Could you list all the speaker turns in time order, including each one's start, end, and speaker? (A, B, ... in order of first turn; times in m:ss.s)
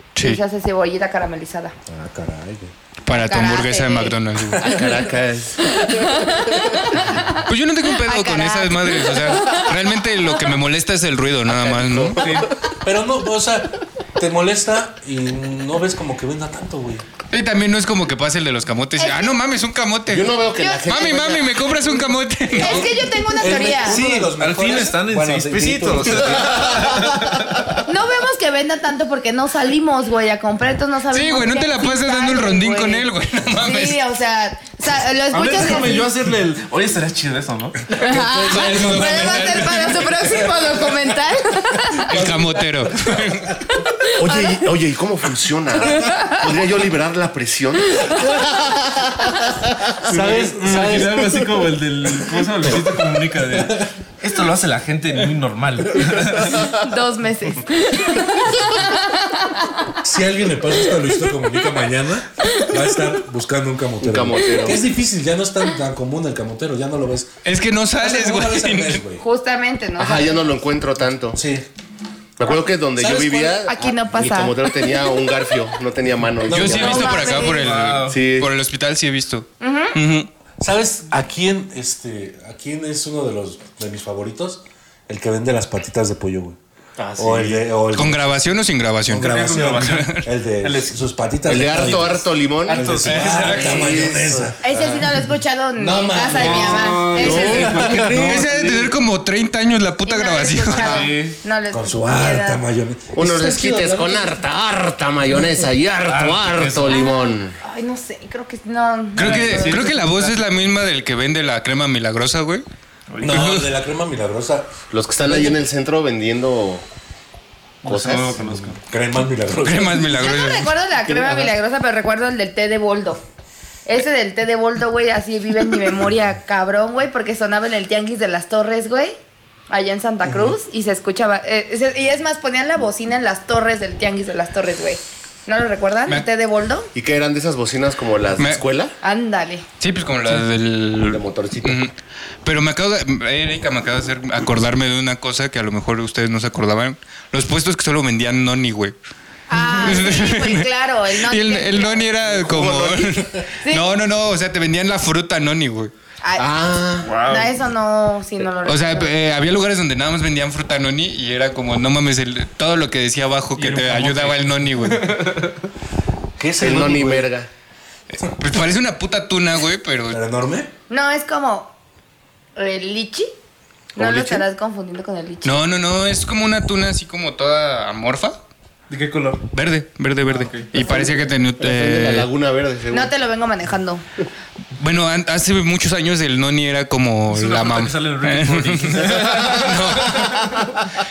0:00.1-0:00.4 A
0:00.2-0:01.7 B
0:01.8-0:02.7 C
0:03.0-0:04.9 A
0:03.1-0:04.2 B
0:04.6-0:06.8 D
0:05.6-0:10.0 B
0:07.4-0:12.3 A
0:11.5-0:12.5 D
0:12.2-0:12.5 E
0:12.8-0:17.0 C
0:17.3-0:23.0 A
0:19.0-0:19.4 B
0:20.1-0:22.0 D
0:20.6-0:20.8 B
0:22.5-0:24.0 B
0:22.6-0:27.0 C
0:23.8-0:27.6 E
0:26.4-0:27.1 D
0:27.8-0:36.1 B
0:31.1-0:34.0 A
0:35.3-0:37.9 E
0:37.9-0:40.9 C
0:38.0-0:42.1 B
0:38.5-0:40.2 A
0:42.0-0:43.6 C
0:42.1-0:43.6 A
0:43.9-0:44.6 B
0:44.2-0:50.2 D
0:46.0-0:46.4 B
0:50.1-0:51.5 C
0:50.1-0:56.7 E
0:52.6-0:53.9 C
0:56.6-0:59.9 B
1:00.0-1:07.3 C
1:04.0-1:04.8 D
1:07.4-1:09.0 A
1:08.0-1:09.2 C
1:09.2-1:10.4 B
1:10.0-1:11.4 D
1:11.3-1:11.7 C
1:12.4-1:17.4 D
1:13.0-1:13.6 C
1:13.6-1:14.6 B
1:16.4-1:17.0 C
1:16.5-1:20.3 A
1:16.7-1:17.7 B
1:17.4-1:18.2 E
1:18.0-1:18.5 D
1:19.6-1:20.0 B
1:20.6-1:26.6 C
1:27.0-1:27.6 E
1:27.2-1:28.4 C
1:27.9-1:30.2 A
1:29.1-1:35.2 C
1:29.1-1:30.0 E
1:30.6-1:30.9 E
1:31.4-1:34.9 D
1:32.7-1:33.7 E
1:33.0-1:34.0 A
1:34.6-1:37.7 B
1:35.8-1:38.4 C
1:36.3-1:38.9 E
1:37.2-1:38.3 D
1:38.1-1:41.0 A
1:40.0-1:42.6 B
1:40.7-1:41.4 E
1:41.7-1:44.4 C
1:43.1-1:47.6 D
1:46.1-1:47.0 E
1:46.9-1:49.9 B
1:49.1-1:52.6 A
1:49.2-1:50.4 E
1:53.1-1:53.6 E
1:53.2-1:54.7 C
1:53.2-1:53.7 A
1:54.9-1:56.8 D
1:55.3-1:55.5 C
1:57.8-1:58.8 E
1:57.8-1:58.3 D
1:58.1-2:00.2 C
1:59.6-2:00.7 A
2:00.1-2:03.2 B
2:03.8-2:09.1 B
2:09.7-2:16.9 B
2:10.2-2:10.5 C
2:16.9-2:18.9 D
2:19.0-2:19.6 B
2:19.8-2:28.9 A
2:21.1-2:21.8 D
2:29.5-2:32.1 B
2:29.7-2:35.9 A
2:32.2-2:33.3 D
2:33.6-2:33.9 B
2:36.2-2:36.5 B
2:36.4-2:37.1 D
2:37.0-2:37.6 E
2:37.2-2:39.1 B
2:38.6-2:45.1 A
2:43.6-2:45.6 E
2:46.4-2:47.3 C
2:46.6-2:47.5 D
2:48.2-2:50.2 A
2:50.1-2:50.7 C
2:50.9-2:51.7 B
2:52.6-2:53.3 B
2:54.0-2:55.6 B
2:54.0-2:54.4 D
2:55.4-2:58.4 A
2:58.9-2:59.4 E
2:59.5-3:02.3 A
3:00.3-3:00.8 E
3:00.8-3:03.1 D
3:02.9-3:04.0 B
3:04.8-3:10.4 A
3:07.3-3:10.6 E